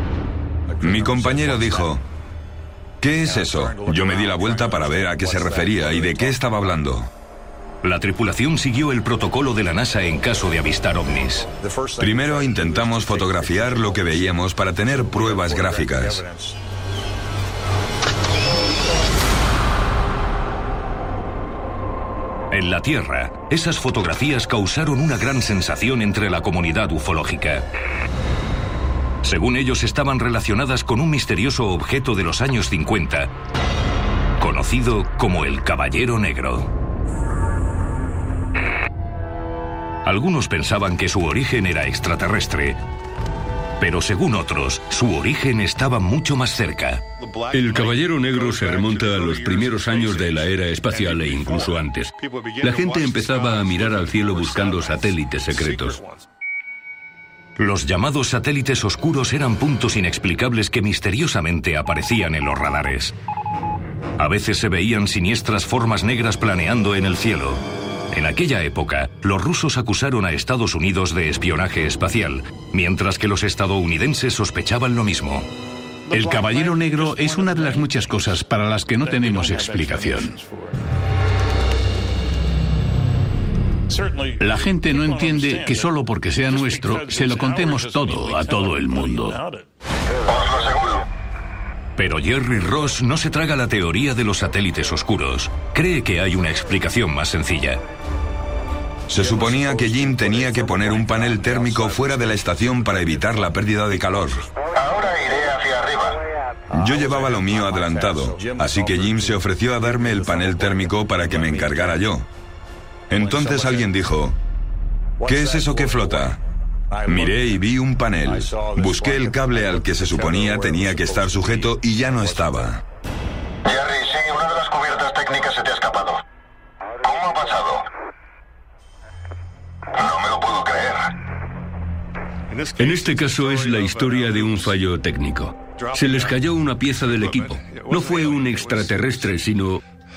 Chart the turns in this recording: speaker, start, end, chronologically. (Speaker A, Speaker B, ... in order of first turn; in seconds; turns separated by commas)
Speaker A: 0.8-2.0, Speaker A: 3.0-7.1, Speaker B: 7.8-11.5, Speaker A: 12.0-16.2, Speaker B: 22.5-27.6, Speaker B: 29.2-33.3, Speaker B: 34.4-36.7, Speaker B: 40.0-42.8, Speaker B: 43.8-47.0, Speaker C: 47.5-56.0, Speaker B: 57.6-63.1, Speaker B: 64.2-75.5, Speaker D: 76.1-80.4, Speaker D: 84.4-89.4, Speaker E: 90.2-91.1, Speaker B: 92.0-97.8, Speaker A: 99.1-104.5, Speaker E: 104.7-106.2, Speaker A: 106.7-112.3, Speaker A: 113.1-114.3, Speaker A: 115.2-116.4, Speaker A: 117.0-122.8, Speaker E: 123.6-126.2, Speaker E: 127.0-127.8, Speaker E: 129.9-131.1, Speaker C: 132.8-139.8